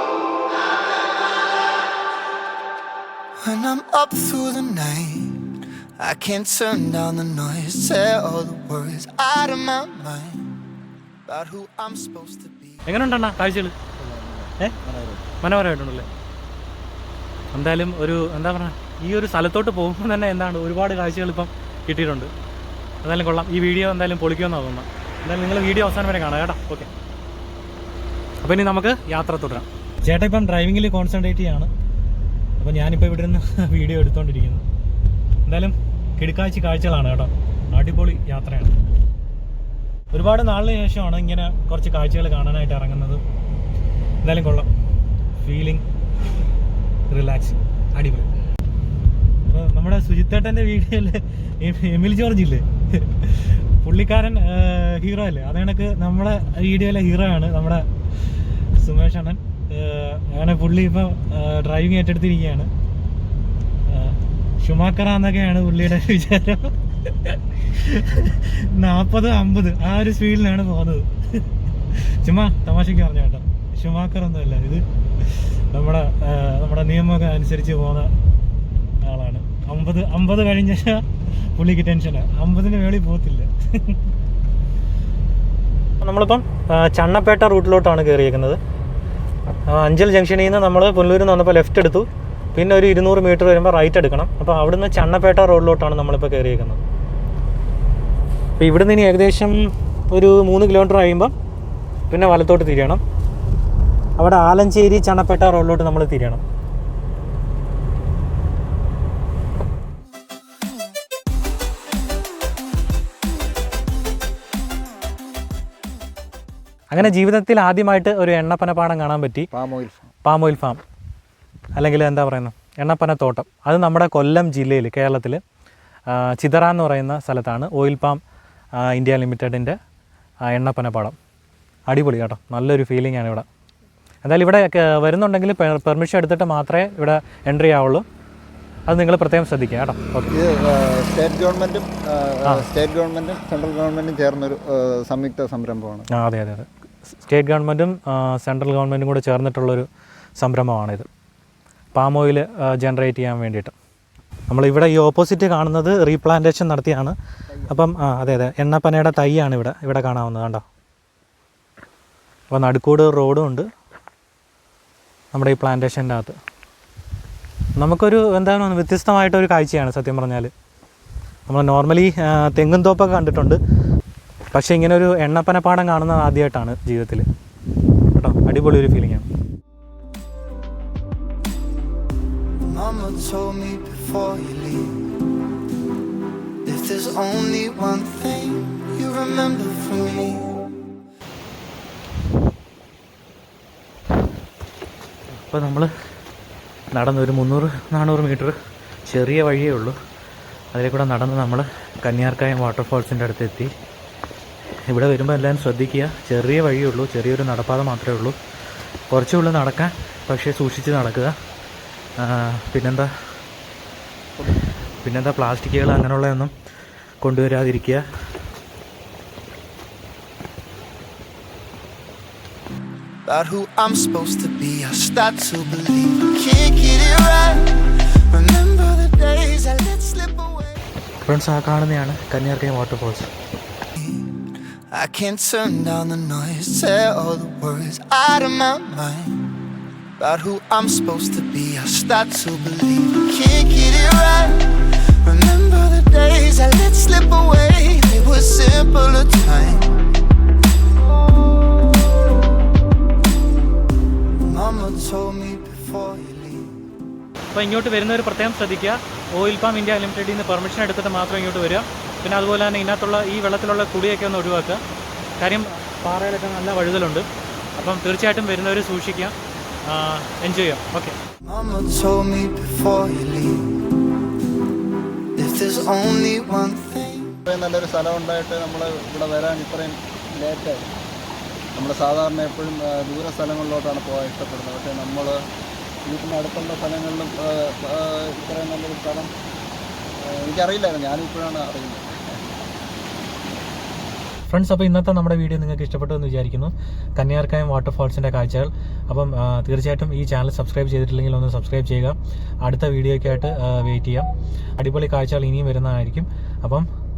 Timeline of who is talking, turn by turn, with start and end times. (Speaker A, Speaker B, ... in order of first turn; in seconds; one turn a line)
Speaker A: 3.4-10.5
Speaker A: 11.3-13.0
Speaker B: 12.9-13.8
Speaker C: 14.0-15.2
Speaker B: 15.4-16.1
Speaker B: 17.5-22.3
Speaker B: 23.0-26.9
Speaker B: 28.4-31.7
Speaker B: 32.6-34.6
Speaker B: 35.5-38.8
Speaker B: 40.1-43.2
Speaker B: 44.2-44.7
Speaker B: 45.4-45.8
Speaker B: 47.1-48.3
Speaker B: 49.5-57.9
Speaker B: 58.8-62.7
Speaker B: 63.9-78.1
Speaker B: 79.0-84.0
Speaker B: 86.0-88.6
Speaker B: 89.7-96.8
Speaker B: 98.6-101.3
Speaker B: 102.1-103.0
Speaker B: 104.2-106.4
Speaker B: 116.9-119.5
Speaker C: 119.5-120.1
Speaker B: 120.2-120.8
Speaker B: 121.8-125.4
Speaker B: 126.1-128.2
Speaker B: 128.8-129.8
Speaker B: 130.4-131.2
Speaker B: 131.9-133.5
Speaker B: 134.2-138.0
Speaker B: 138.9-140.3
Speaker C: 140.3-146.1
Speaker B: 146.1-149.9
Speaker B: 150.4-151.1
Speaker B: 151.9-153.7
Speaker B: 154.5-160.6
Speaker B: 162.5-163.7
Speaker B: 165.3-166.3
Speaker B: 167.8-170.5
Speaker B: 171.5-173.6
Speaker B: 174.5-177.3
Speaker B: 178.1-179.3
Speaker A: 182.7-185.1
Speaker A: 186.7-190.6
Speaker B: 195.3-195.9
Speaker B: 196.9-198.6
Speaker B: 199.1-200.0
Speaker B: 200.7-203.7
Speaker B: 204.9-208.4
Speaker B: 209.1-211.3
Speaker B: 212.2-213.1
Speaker B: 215.0-216.5
Speaker B: 217.2-218.0
Speaker A: 223.3-230.9
Speaker B: 231.2-233.3
Speaker A: 234.0-239.5
Speaker A: 240.2-250.0
Speaker A: 254.4-256.8
Speaker B: 257.5-264.8
Speaker B: 265.4-267.3
Speaker B: 267.8-269.4
Speaker B: 269.9-271.2
Speaker A: 271.4-273.9
Speaker A: 275.4-277.4
Speaker C: 277.5-280.8
Speaker C: 281.8-285.4
Speaker C: 286.1-289.3
Speaker C: 290.2-292.1
Speaker B: 294.5-306.9